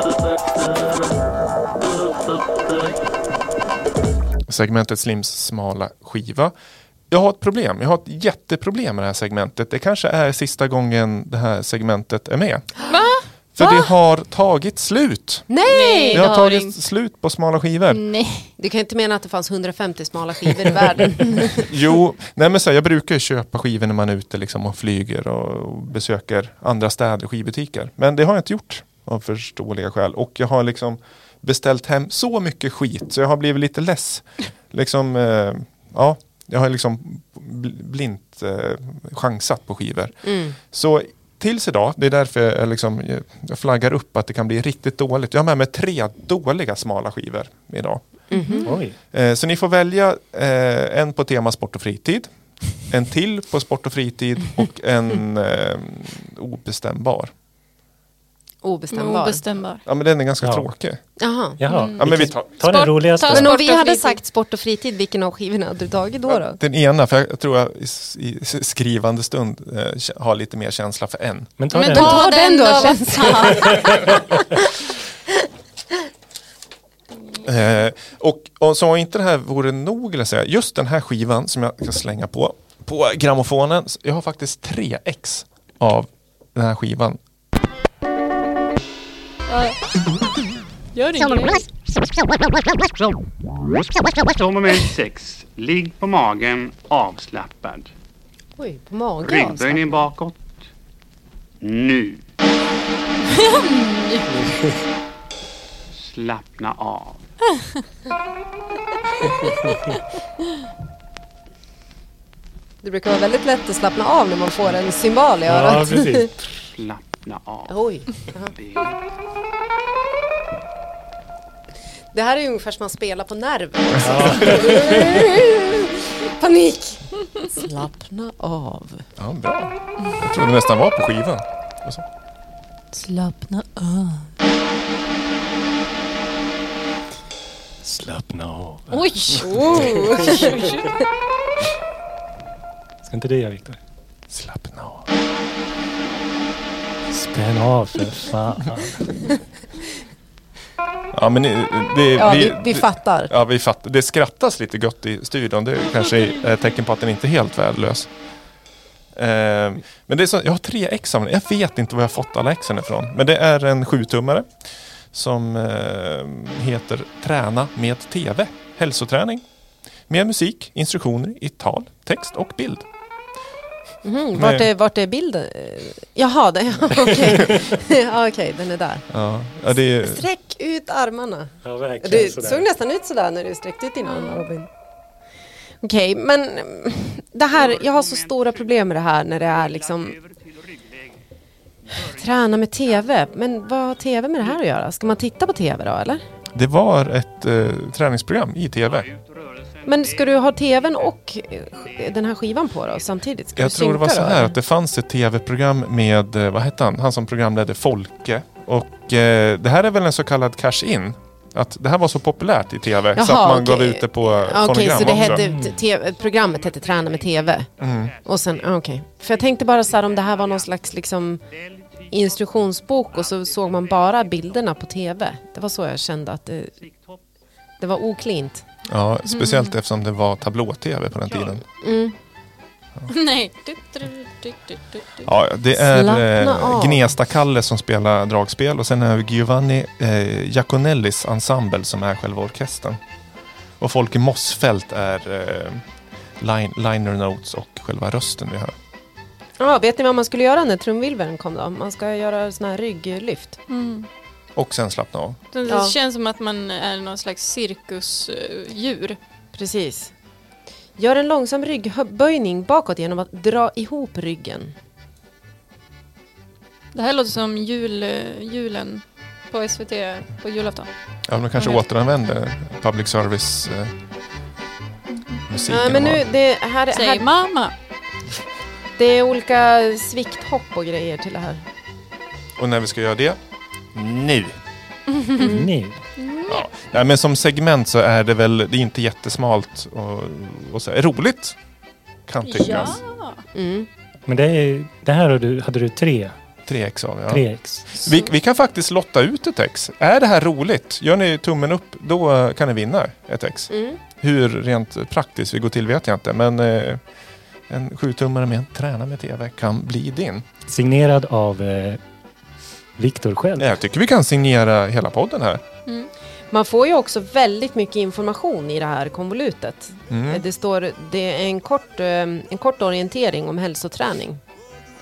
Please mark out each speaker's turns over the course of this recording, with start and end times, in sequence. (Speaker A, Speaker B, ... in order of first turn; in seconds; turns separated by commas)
Speaker A: 4.5-6.5, Speaker A: 7.1-12.8, Speaker B: 12.9-13.2, Speaker A: 13.5-15.5, Speaker C: 13.6-13.9, Speaker C: 15.5-16.3, Speaker B: 15.7-16.8, Speaker A: 16.1-18.0, Speaker B: 17.9-18.5, Speaker C: 18.6-21.7, Speaker A: 21.6-48.0, Speaker C: 40.2-40.5, Speaker C: 48.3-48.7, Speaker A: 48.6-57.3, Speaker D: 48.6-49.0, Speaker C: 58.6-59.4, Speaker B: 58.9-59.8, Speaker A: 59.8-61.0, Speaker D: 60.4-60.7, Speaker C: 61.2-61.6, Speaker D: 61.6-63.5, Speaker B: 61.7-62.0, Speaker A: 62.0-62.6, Speaker B: 62.6-64.2, Speaker C: 63.2-66.6, Speaker A: 66.3-71.5, Speaker D: 71.6-72.2, Speaker B: 71.7-74.1, Speaker C: 71.7-74.6, Speaker A: 77.4-87.2, Speaker B: 89.5-89.8, Speaker B: 90.9-91.6, Speaker C: 91.2-91.6, Speaker E: 94.2-97.9, Speaker C: 98.6-100.0, Speaker E: 99.2-100.6, Speaker E: 101.6-102.2, Speaker B: 103.3-104.7, Speaker E: 105.9-107.2, Speaker C: 112.8-116.3, Speaker D: 115.5-116.3, Speaker E: 116.7-117.8, Speaker C: 117.7-118.5, Speaker E: 118.4-119.0, Speaker C: 122.1-129.0, Speaker D: 124.0-125.3, Speaker A: 129.2-132.0, Speaker B: 132.9-134.3, Speaker D: 137.8-140.2, Speaker B: 138.9-140.9, Speaker C: 139.3-140.7, Speaker D: 143.0-143.8, Speaker A: 144.3-145.1, Speaker D: 147.1-149.3, Speaker A: 151.1-158.1, Speaker C: 152.2-153.3, Speaker A: 159.1-164.5, Speaker A: 165.1-169.4, Speaker A: 170.1-172.8, Speaker C: 174.0-179.1, Speaker A: 174.3-174.7, Speaker A: 179.1-180.2, Speaker C: 179.9-184.7, Speaker D: 181.6-182.7, Speaker B: 184.0-184.5, Speaker C: 185.8-190.2, Speaker E: 187.6-188.5, Speaker E: 189.6-191.1, Speaker C: 192.0-196.2, Speaker A: 196.5-199.1, Speaker E: 198.9-200.3, Speaker C: 199.8-204.5, Speaker A: 203.6-215.4, Speaker C: 213.1-221.4, Speaker D: 215.3-215.7, Speaker A: 217.8-218.1, Speaker C: 222.1-226.7, Speaker C: 227.8-228.6, Speaker A: 228.9-231.6, Speaker B: 229.2-229.7, Speaker C: 231.8-232.1, Speaker B: 233.1-235.2, Speaker A: 235.2-243.0, Speaker C: 235.7-237.0, Speaker A: 243.8-245.8, Speaker A: 246.4-248.7, Speaker C: 249.6-253.6, Speaker B: 253.7-254.1, Speaker A: 254.6-255.4, Speaker B: 255.5-259.2, Speaker C: 255.7-255.9, Speaker C: 259.5-260.1, Speaker C: 261.0-264.7, Speaker B: 266.9-270.9, Speaker A: 271.3-273.9, Speaker B: 271.5-271.8, Speaker B: 275.1-275.4, Speaker A: 275.5-276.2, Speaker C: 275.7-277.2, Speaker B: 276.9-277.7, Speaker C: 278.9-281.6, Speaker A: 282.6-283.4, Speaker A: 283.9-284.6, Speaker B: 285.2-285.6, Speaker D: 285.4-286.0, Speaker B: 286.2-286.6, Speaker A: 286.5-291.6, Speaker A: 292.3-293.0, Speaker B: 292.4-293.4, Speaker C: 293.5-293.9, Speaker D: 294.3-296.3, Speaker A: 296.6-307.0, Speaker D: 297.3-298.0, Speaker C: 303.7-304.0, Speaker A: 307.7-310.4, Speaker D: 310.7-312.0, Speaker D: 313.0-313.7, Speaker A: 313.6-315.6, Speaker C: 316.5-324.4, Speaker A: 320.1-320.4